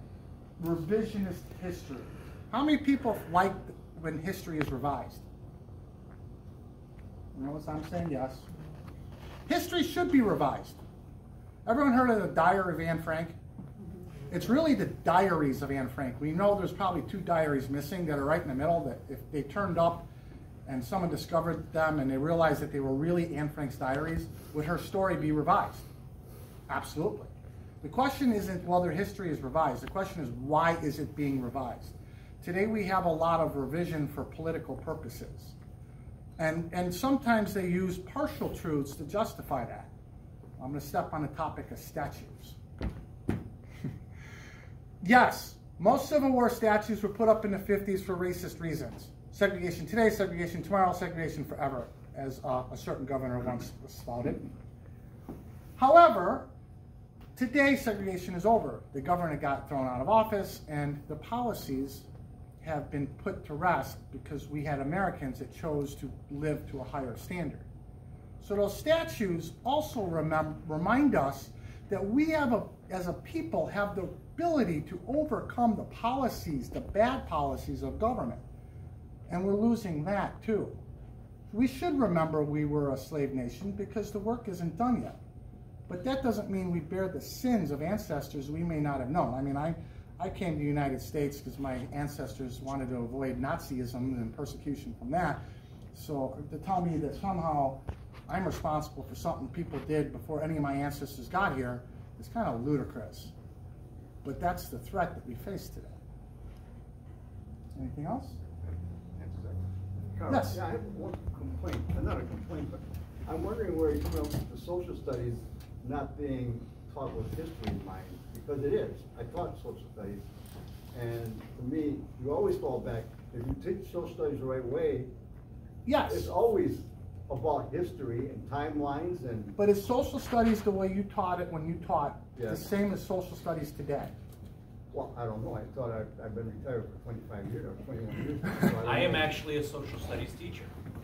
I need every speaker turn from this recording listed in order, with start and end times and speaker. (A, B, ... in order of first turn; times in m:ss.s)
0:00.6-0:05.2 A
0:07.3-0:08.4 A
0:09.4-0:10.8 A
0:11.6-0:13.4 A
0:14.3-0:20.1 A
0:20.6-0:25.9 A
0:26.7-0:35.6 A
0:36.4-0:39.9 A
0:40.6-0:42.6 A
0:45.0-0:54.5 A
0:55.8-0:56.5 A
0:57.4-1:02.1 A
1:02.6-1:07.7 A
1:08.4-1:18.4 A
1:19.3-1:20.8 A
1:21.5-1:25.2 A
1:25.9-1:35.4 A
1:35.9-1:43.3 A
1:44.2-1:46.0 A
1:47.7-1:48.4 A
1:48.6-2:00.3 B
1:50.3-1:50.6 A
2:00.9-2:05.1 B
2:05.8-2:06.3 A
2:06.1-2:09.6 B
2:09.6-2:14.1 A
2:14.9-2:19.4 B
2:18.8-2:20.7 C